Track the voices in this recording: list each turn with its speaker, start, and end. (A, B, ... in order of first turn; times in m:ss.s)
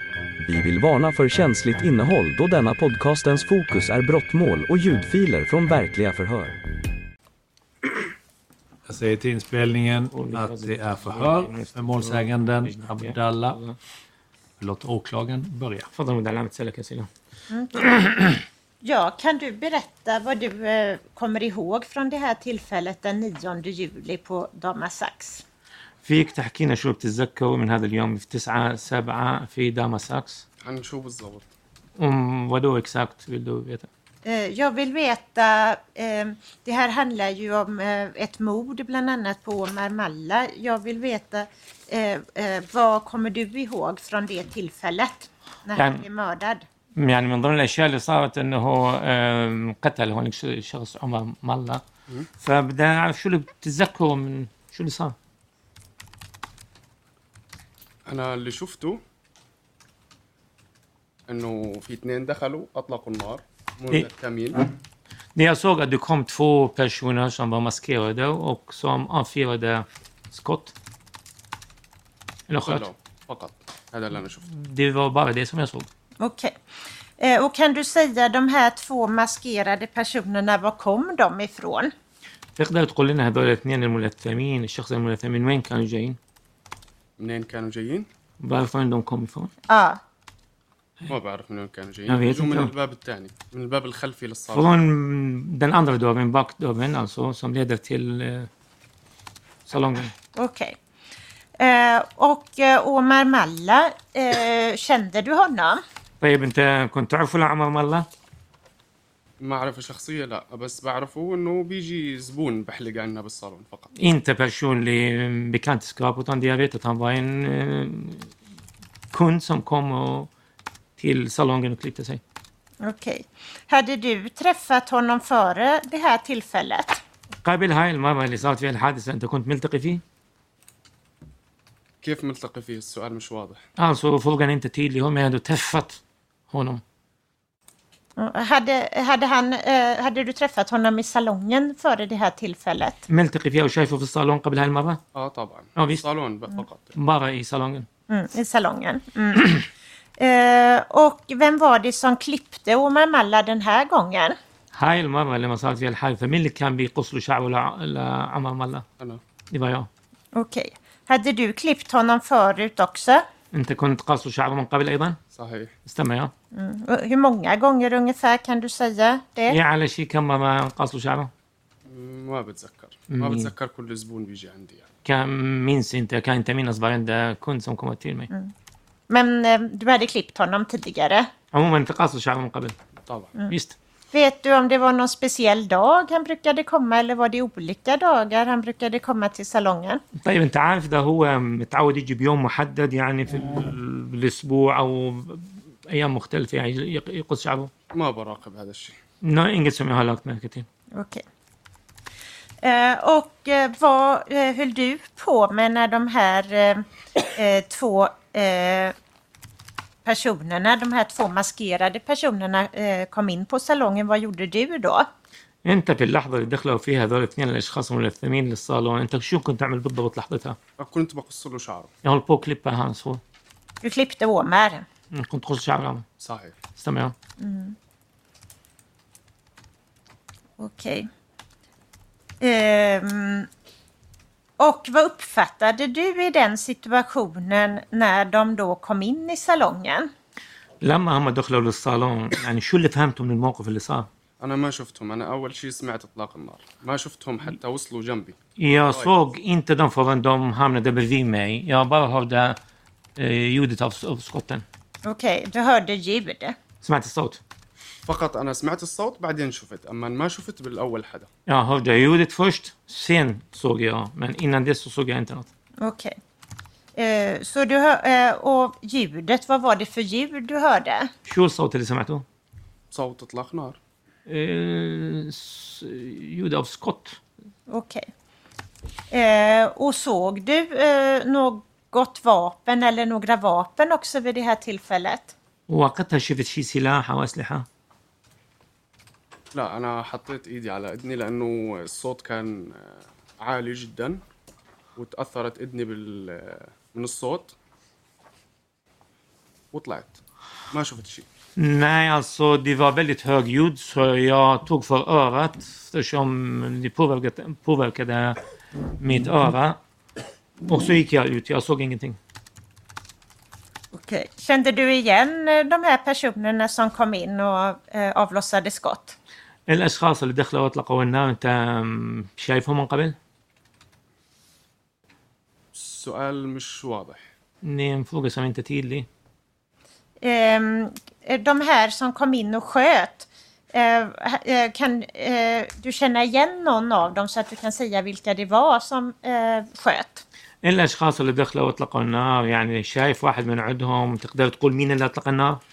0:00.4-0:06.6 A
0:08.8-0:13.6 B
0:10.1-0:13.8 C
0:14.6-0:15.9 B
0:15.9-0:17.1 C
0:17.5-0:18.0 D
0:18.0-0:18.4 C
0:18.8-0:25.4 D
0:26.0-0:30.4 C
0:30.6-0:31.5 E
0:32.0-0:33.9 C
0:34.2-0:46.6 D
0:45.7-0:46.0 C
0:47.0-0:51.8 C
0:52.4-0:55.2 C
0:58.0-0:59.0 E
1:01.3-1:04.7 E
1:05.4-1:10.7 C
1:12.5-1:12.9 C
1:12.7-1:14.4 E
1:14.5-1:15.9 C
1:16.2-1:16.6 D
1:17.2-1:21.9 D
1:22.6-1:26.2 C
1:27.2-1:28.1 E
1:28.4-1:29.5 C
1:29.7-1:30.0 D
1:31.1-1:34.7 E
1:32.1-1:32.7 C
1:34.5-1:38.5 C
1:39.7-1:40.1 C
1:40.4-1:40.8 D
1:41.6-1:45.8 D
1:46.2-1:48.1 C
1:49.4-1:53.9 E
1:54.0-1:58.3 C
1:59.1-2:00.3 C
2:01.0-2:02.2 C
2:02.8-2:07.0 D
2:07.4-2:10.0 C
2:12.0-2:13.6 E
2:13.8-2:16.8 C
2:18.2-2:23.1 D
2:23.1-2:25.0 C
2:25.1-2:26.9 E
2:25.8-2:26.1 C
2:27.0-2:27.9 C
2:28.1-2:29.7 D
2:30.2-2:34.4 D
2:34.7-2:38.8 C
2:39.5-2:39.9 C
2:40.3-2:43.2 D
2:43.5-2:45.2 C
2:45.3-2:45.7 E
2:45.8-2:46.3 C
2:46.5-2:49.6 D
2:49.5-2:51.3 C
2:51.9-2:54.9 E
2:53.1-2:53.5 C
2:55.0-2:58.3 C
2:59.1-3:01.3 D
3:01.5-3:02.8 C
3:03.1-3:03.3 E
3:03.5-3:03.8 C
3:04.1-3:10.0 D
3:10.2-3:17.7 C
3:17.9-3:19.0 E
3:19.2-3:20.7 C
3:20.9-3:21.2 D
3:22.6-3:28.9 D
3:30.0-3:35.1 D
3:35.6-3:40.6 C
3:40.8-3:41.9 E
3:42.0-3:43.2 C
3:43.8-3:44.8 D
3:45.1-3:46.0 C
3:46.2-3:46.5 E
3:46.8-3:47.1 C
3:47.4-3:47.8 D
3:50.6-3:51.1 D
3:52.4-3:53.5 D
3:54.6-4:00.1 D
4:00.8-4:04.1 C
4:04.4-4:09.1 E
4:08.6-4:12.6 C
4:13.2-4:14.6 C
4:15.0-4:16.6 D
4:16.8-4:17.4 C
4:18.0-4:21.3 E
4:21.4-4:25.5 C
4:25.8-4:26.2 D
4:27.0-4:31.1 D
4:31.3-4:32.2 C
4:32.9-4:33.8 E
4:34.3-4:37.2 C
4:37.7-4:38.1 D
4:39.1-4:45.3 D
4:45.7-4:47.7 C
4:49.5-4:54.2 E
4:55.0-4:57.6 E
4:59.7-5:00.2 E
5:00.7-5:01.2 E
5:01.6-5:08.4 C
5:09.0-5:09.8 C
5:10.6-5:12.2 C
5:13.9-5:19.2 D
5:19.7-5:23.2 C
5:25.7-5:27.2 E
5:27.6-5:29.1 C
5:30.2-5:40.2 D
5:40.6-5:45.6 C